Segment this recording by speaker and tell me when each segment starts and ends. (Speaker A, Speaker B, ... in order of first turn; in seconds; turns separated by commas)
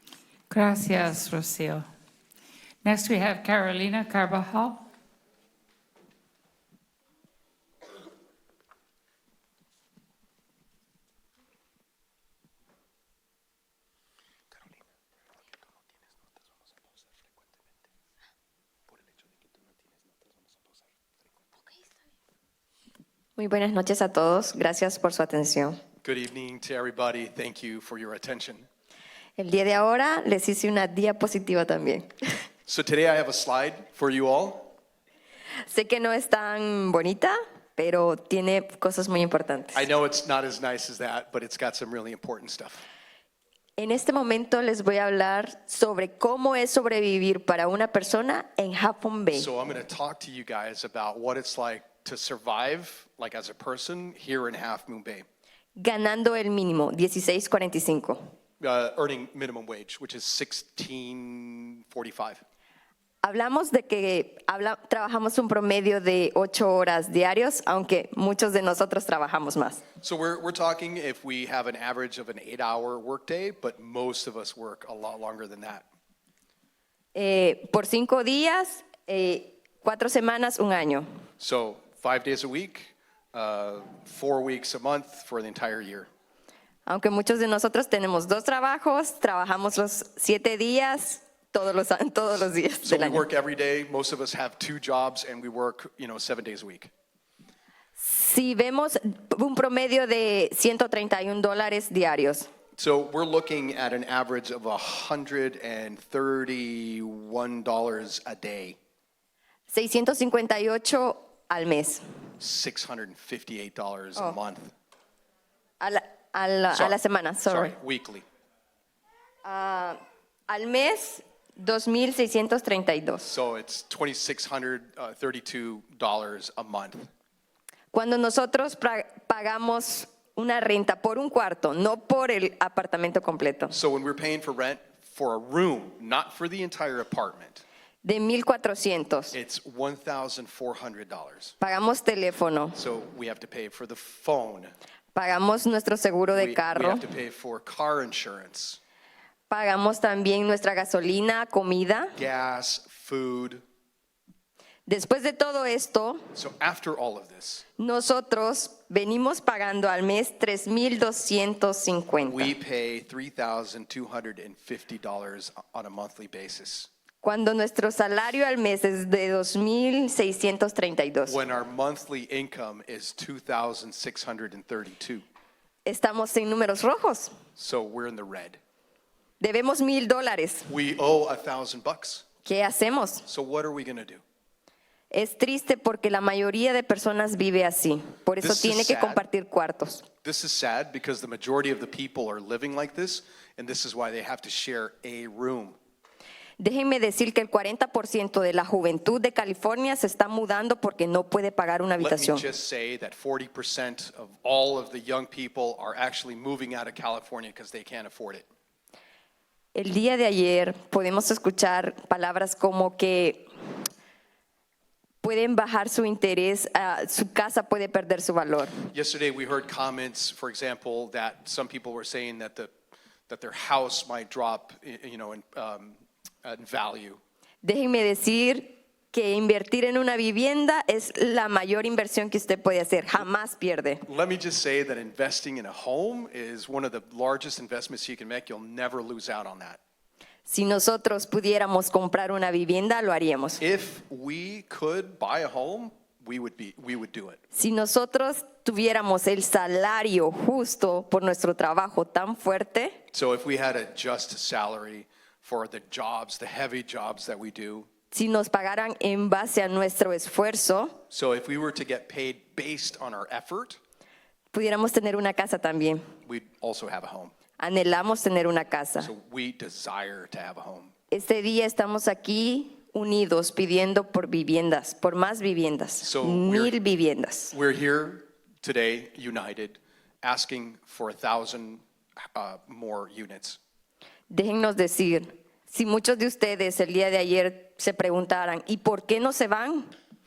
Speaker A: 0.5-1.9, Speaker A: 2.8-4.8, Speaker B: 23.4-25.8, Speaker C: 26.0-28.7, Speaker B: 29.4-32.1, Speaker C: 32.7-34.7, Speaker B: 35.7-39.9, Speaker C: 39.8-42.8, Speaker B: 43.8-49.5, Speaker C: 49.3-55.2, Speaker B: 55.8-58.2, Speaker C: 58.6-62.4, Speaker B: 63.2-69.8, Speaker C: 70.0-75.9, Speaker B: 77.2-81.0, Speaker C: 81.4-86.1, Speaker B: 86.9-93.3, Speaker C: 92.8-96.9, Speaker B: 98.0-102.5, Speaker C: 102.8-108.8, Speaker B: 109.7-112.0, Speaker C: 112.4-114.7, Speaker B: 115.8-117.7, Speaker C: 116.7-118.2, Speaker B: 119.5-120.0, Speaker B: 120.5-123.3, Speaker C: 123.2-127.1, Speaker B: 127.9-133.8, Speaker C: 133.7-137.6, Speaker B: 138.0-139.3, Speaker C: 139.3-141.6, Speaker B: 141.6-142.8, Speaker C: 142.8-144.7, Speaker B: 145.2-147.1, Speaker C: 146.3-148.8, Speaker B: 149.5-152.2, Speaker C: 152.2-153.6, Speaker B: 154.9-156.2, Speaker C: 156.3-157.7, Speaker B: 157.8-162.5, Speaker C: 162.2-166.9, Speaker B: 167.2-171.4, Speaker C: 171.3-175.2, Speaker B: 175.8-177.3, Speaker C: 177.6-178.6, Speaker B: 179.4-180.7, Speaker C: 180.7-182.2, Speaker B: 182.4-183.2, Speaker C: 183.3-184.2, Speaker B: 185.1-190.1, Speaker C: 188.4-189.2, Speaker C: 190.2-195.8, Speaker B: 196.6-202.5, Speaker C: 202.0-208.5, Speaker B: 209.8-213.5, Speaker B: 215.2-218.7, Speaker C: 218.9-222.7, Speaker C: 223.3-227.2, Speaker B: 227.6-234.1, Speaker C: 234.1-239.8, Speaker B: 240.5-243.6, Speaker C: 243.6-247.4, Speaker B: 247.5-253.0, Speaker C: 253.1-257.9, Speaker B: 258.1-261.0, Speaker C: 261.1-263.8, Speaker B: 264.5-266.0, Speaker C: 266.2-267.3, Speaker B: 267.6-269.1, Speaker C: 269.0-270.9, Speaker B: 271.1-277.6, Speaker C: 276.0-276.7, Speaker C: 277.5-281.8, Speaker C: 282.4-283.6, Speaker B: 284.3-289.9